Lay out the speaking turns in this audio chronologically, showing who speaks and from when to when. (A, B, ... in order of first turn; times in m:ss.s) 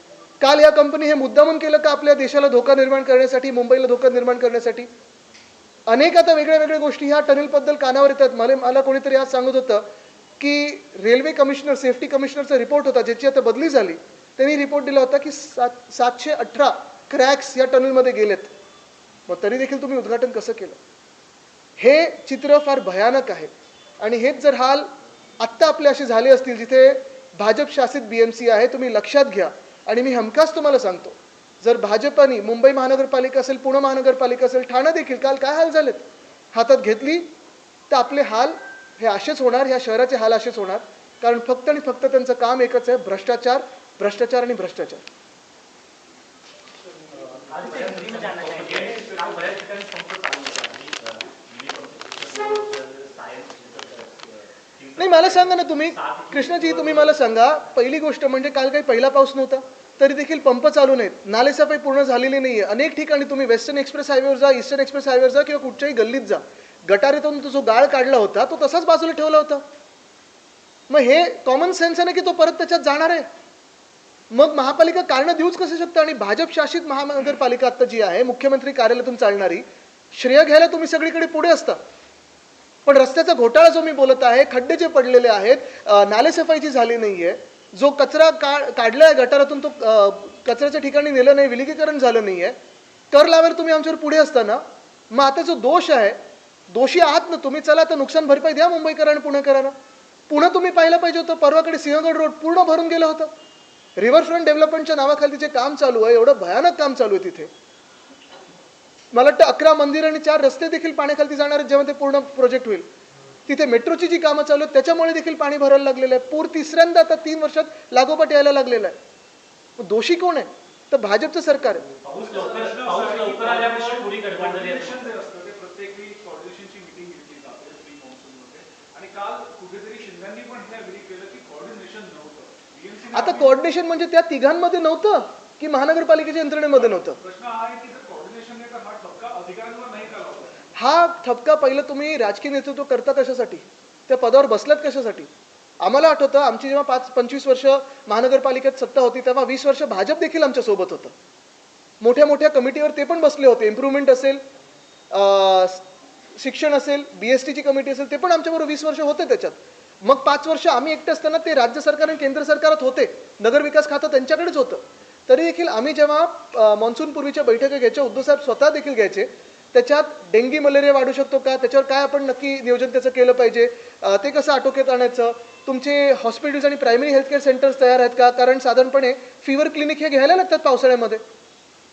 0:00.4-0:04.9 A
0:05.9-0:09.8 A
0:10.4-0:18.5 A
0:19.3-0:20.8 A
0:21.8-0:24.9 A
0:25.4-0:37.3 A
0:37.9-0:45.0 A
0:47.1-0:50.8 B
0:55.0-1:09.6 A
0:55.0-0:57.1 B
1:10.9-1:13.3 A
1:14.3-1:21.8 A
1:22.8-1:32.6 A
1:33.1-1:36.2 A
1:36.7-1:39.7 A
1:40.3-1:43.3 A
1:44.0-1:47.5 A
1:49.1-1:52.9 A
1:53.5-1:59.0 A
1:59.8-2:01.9 A
2:02.0-2:05.0 B
2:02.2-2:13.5 C
2:13.1-2:17.2 A
2:16.7-2:20.6 C
2:20.8-2:25.3 A
2:25.8-2:31.1 A
2:32.0-2:34.4 A
2:35.1-2:35.8 A
2:36.4-3:01.2 A